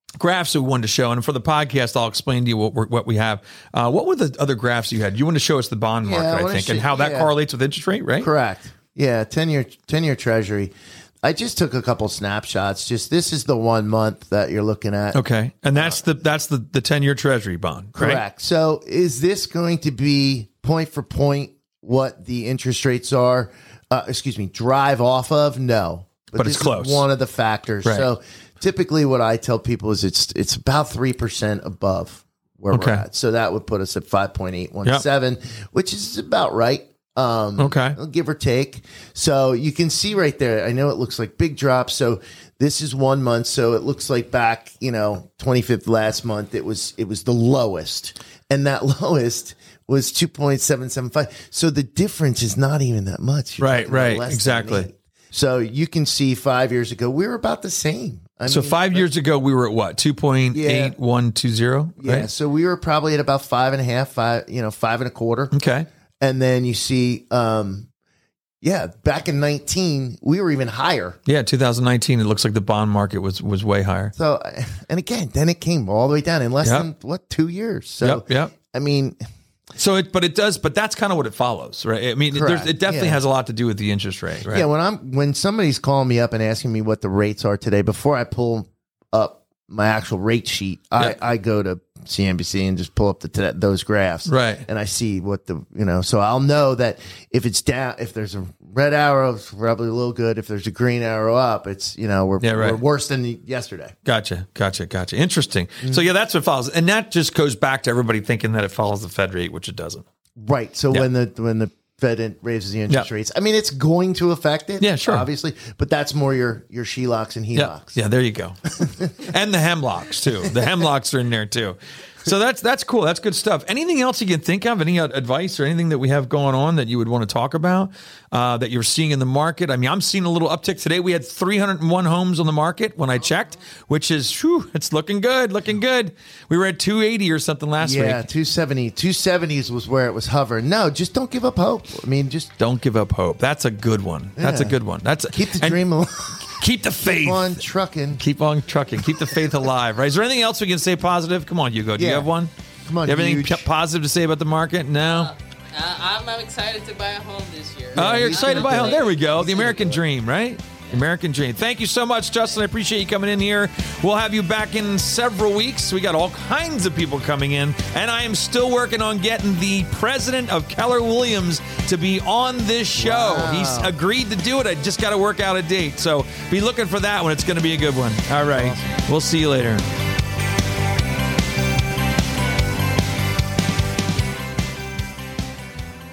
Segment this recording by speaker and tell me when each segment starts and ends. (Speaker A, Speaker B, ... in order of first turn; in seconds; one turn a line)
Speaker A: 0.2-8.3
Speaker B: 6.0-7.3
Speaker B: 8.2-15.2
Speaker A: 15.1-18.2
Speaker B: 15.8-16.0
Speaker B: 17.9-59.1
Speaker A: 26.4-27.1
Speaker A: 27.8-28.1
Speaker A: 32.7-33.0
Speaker A: 37.6-38.0
Speaker A: 53.6-54.9
Speaker A: 58.5-62.3
Speaker B: 60.5-61.0
Speaker B: 62.0-65.5
Speaker A: 65.5-65.9
Speaker B: 66.2-67.9
Speaker B: 68.6-71.2
Speaker A: 71.3-74.1
Speaker B: 74.2-79.2
Speaker A: 76.6-76.9
Speaker A: 78.0-78.5
Speaker A: 79.8-84.7
Speaker B: 82.3-83.2
Speaker B: 84.5-103.9
Speaker A: 94.3-94.7
Speaker A: 102.4-102.8
Speaker A: 104.0-110.0
Speaker B: 110.4-118.0
Speaker A: 114.8-115.3
Speaker A: 117.5-138.3
Speaker B: 137.8-142.5
Speaker A: 142.6-145.8
Speaker B: 144.4-148.2
Speaker A: 146.4-147.6
Speaker A: 148.2-152.5
Speaker B: 152.0-152.3
Speaker B: 152.9-153.7
Speaker A: 153.0-155.3
Speaker C: 155.2-159.5
Speaker B: 157.9-160.0
Speaker A: 158.0-179.9
Speaker B: 173.0-173.9
Speaker B: 178.5-178.8